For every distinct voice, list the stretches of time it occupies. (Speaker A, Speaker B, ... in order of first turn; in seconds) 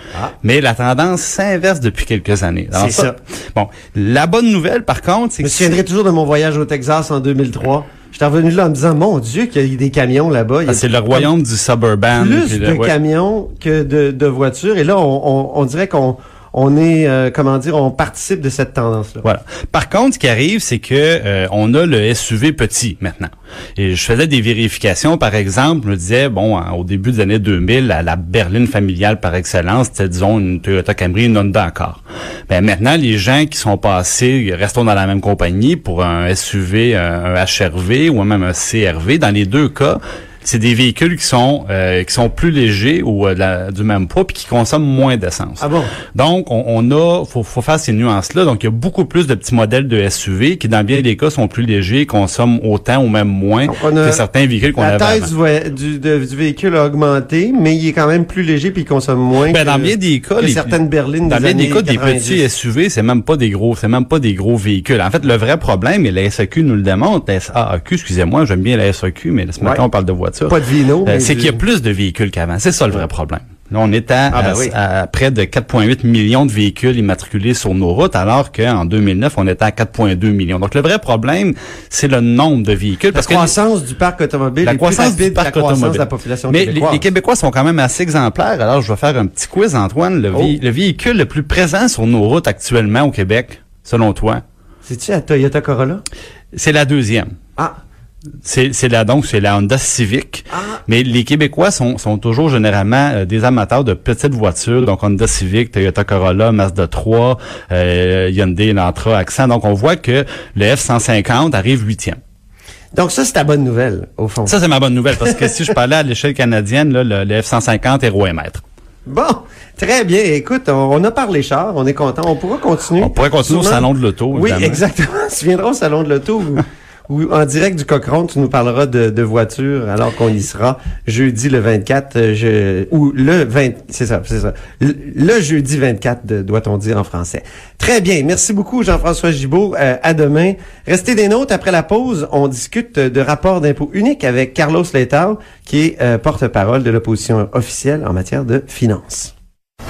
Speaker A: 0.4-5.8, 10.7-12.9, 19.2-55.3, 59.5-83.5, 84.6-94.4, 96.5-97.3, 98.4-112.2, 114.5-118.6, 123.0-124.8
Speaker B: 2.7-3.1, 5.4-11.3, 12.1-19.2, 45.6-45.9, 53.7-54.2, 54.8-62.4, 70.5-71.6, 74.3-74.7, 83.1-87.0, 94.8-96.0, 100.5-100.8, 112.9-114.6, 119.1-149.3